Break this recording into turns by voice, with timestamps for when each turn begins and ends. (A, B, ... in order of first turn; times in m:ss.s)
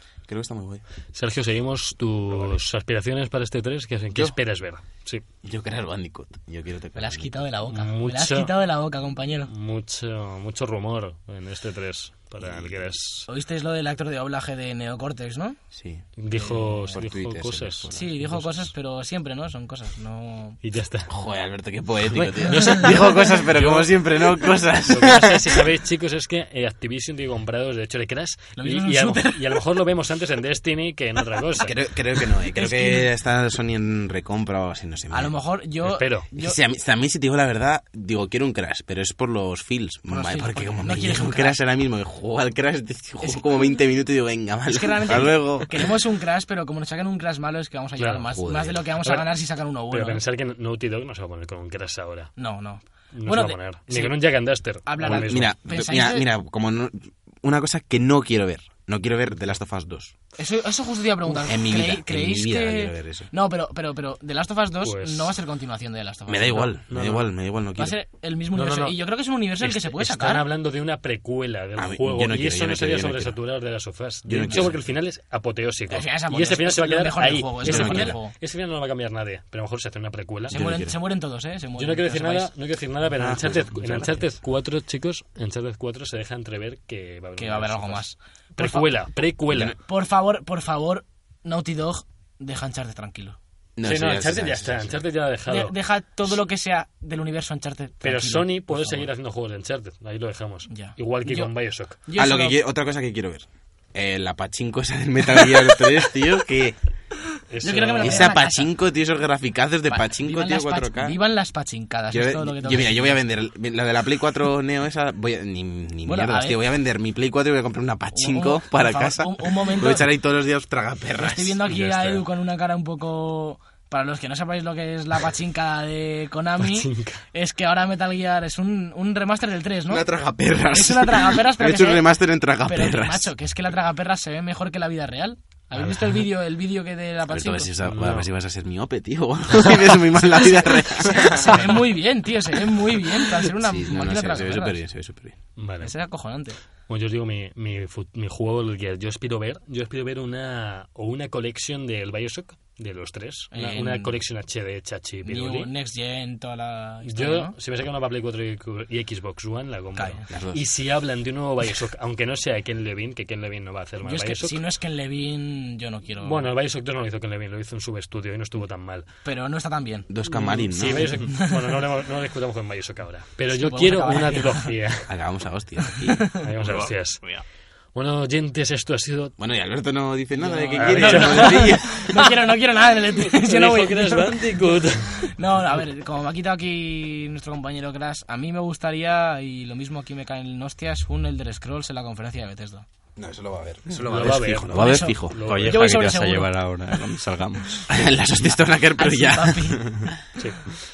0:00.3-0:00.8 A
0:01.1-0:05.2 B
0:05.4-0:07.4 A
0:07.0-0:09.5 C
0:07.7-0:08.5 B
0:09.5-0:13.3 B
0:12.4-0:12.9 A
0:13.3-0:15.6 C
0:15.7-0:16.0 A
0:16.2-0:17.9 B
0:16.3-0:17.0 C
0:16.9-0:18.7 A
0:17.9-0:20.6 C
0:20.6-0:21.1 B
0:21.1-0:25.6 A
0:22.1-0:23.9 B
0:24.8-0:31.8 B
0:28.6-0:29.6 C
0:31.6-0:35.4 A
0:32.5-0:33.1 C
0:35.1-0:36.6 C
0:35.8-0:36.3 B
0:36.4-0:45.9 A
0:40.1-0:41.6 C
0:44.7-0:50.2 C
0:48.0-0:48.3 B
0:48.4-0:48.8 A
0:49.0-0:49.3 B
0:49.9-0:52.3 B
0:52.4-0:54.2 C
0:53.1-0:55.5 B
0:54.8-0:56.3 C
0:55.0-1:00.1 A
1:00.4-1:06.7 C
1:01.5-1:03.3 A
1:04.8-1:05.4 B
1:06.3-1:08.0 A
1:06.9-1:07.3 B
1:07.8-1:10.4 C
1:08.6-1:09.0 B
1:09.6-1:20.6 B
1:11.8-1:13.4 A
1:14.3-1:14.8 A
1:15.9-1:18.3 C
1:17.6-1:18.2 A
1:20.5-1:22.5 C
1:20.5-1:21.0 A
1:21.8-1:28.0 B
1:23.2-1:24.4 A
1:27.4-1:29.1 C
1:28.6-1:29.8 B
1:29.5-1:29.8 A
1:29.8-1:33.4 C
1:33.8-1:35.0 A
1:33.8-1:35.8 B
1:35.5-1:39.1 C
1:38.0-1:42.0 B
1:40.7-1:41.5 C
1:42.1-1:42.6 C
1:42.2-1:46.8 A
1:47.5-1:48.3 B
1:47.6-1:48.7 C
1:48.0-1:51.2 A
1:49.9-1:53.2 C
1:52.1-2:01.6 A
1:56.0-1:56.6 C
1:58.1-2:00.0 C
2:01.2-2:10.0 C
2:01.7-2:02.2 B
2:06.6-2:07.2 B
2:09.9-2:13.3 A
2:10.7-2:12.1 C
2:12.6-2:17.7 C
2:15.8-2:16.2 B
2:17.3-2:21.8 A
2:17.8-2:18.3 B
2:21.0-2:24.8 C
2:23.4-2:25.4 A
2:25.6-2:25.9 B
2:25.8-2:26.6 C
2:26.9-2:35.7 B
2:33.5-2:34.2 C
2:35.2-2:37.6 C
2:37.0-2:44.6 B
2:40.0-2:40.3 C
2:40.3-2:40.6 A
2:44.0-2:46.5 C
2:46.2-2:49.1 B
2:49.2-2:51.8 C
2:50.1-2:51.2 A
2:50.4-2:55.1 B
2:53.5-2:54.7 C
2:55.1-2:56.2 A
2:56.1-2:56.4 C
2:56.4-2:57.2 B
2:56.6-2:57.4 D
2:58.0-2:59.4 B
2:59.4-3:02.1 A
3:00.4-3:04.4 C
3:00.8-3:02.2 B
3:03.2-3:05.3 B
3:05.1-3:12.8 C
3:13.2-3:15.6 A
3:14.1-3:16.2 B
3:14.7-3:16.5 C
3:15.4-3:17.9 D
3:17.9-3:20.2 A
3:19.0-3:20.0 C